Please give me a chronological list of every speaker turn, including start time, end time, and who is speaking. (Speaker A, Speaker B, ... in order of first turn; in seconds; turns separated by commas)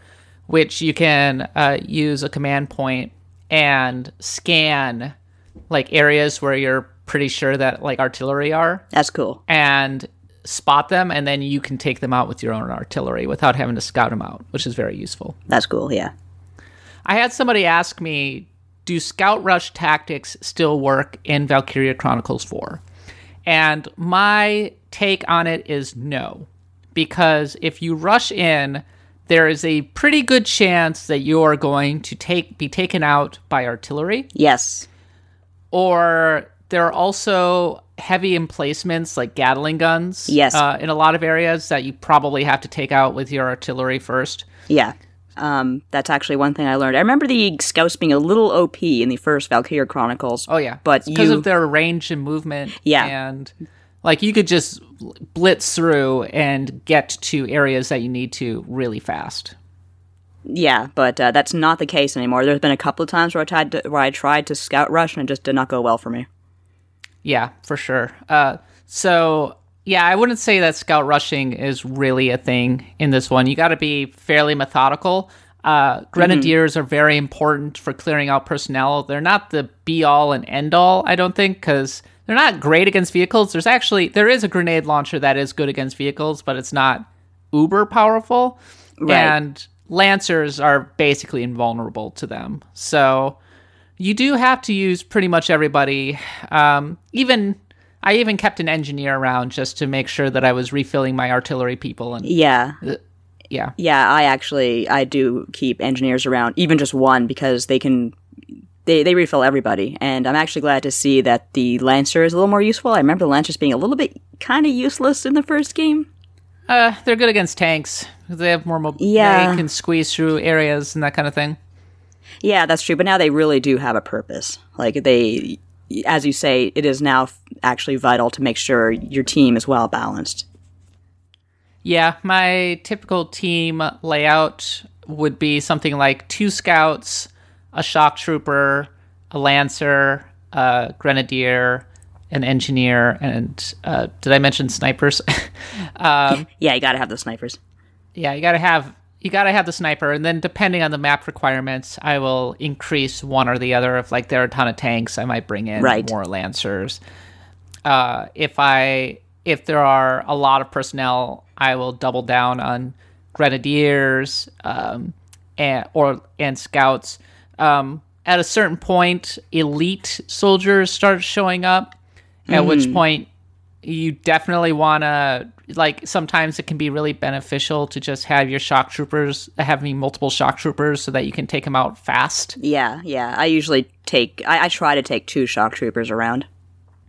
Speaker A: 0.5-5.1, Speaker A: 5.7-8.8, Speaker B: 8.9-9.4, Speaker A: 9.5-15.4, Speaker B: 15.5-16.1, Speaker A: 17.1-22.8, Speaker A: 23.5-34.3, Speaker B: 34.4-34.9, Speaker A: 35.7-44.5, Speaker B: 40.3-40.6, Speaker B: 44.7-51.5, Speaker A: 50.5-59.5, Speaker B: 52.8-53.1, Speaker B: 60.5-66.3, Speaker A: 67.2-93.4, Speaker B: 76.2-76.5, Speaker B: 89.0-89.4, Speaker A: 94.0-103.8, Speaker B: 102.2-102.8, Speaker B: 103.8-108.2, Speaker B: 108.8-116.1, Speaker A: 116.7-121.6, Speaker B: 119.0-119.7, Speaker B: 122.4-130.5, Speaker A: 131.8-146.5, Speaker B: 146.3-147.6, Speaker A: 148.2-157.0, Speaker B: 155.8-156.1, Speaker A: 157.8-171.9, Speaker B: 172.5-173.0, Speaker A: 172.5-173.3, Speaker A: 173.8-182.6, Speaker B: 182.6-186.5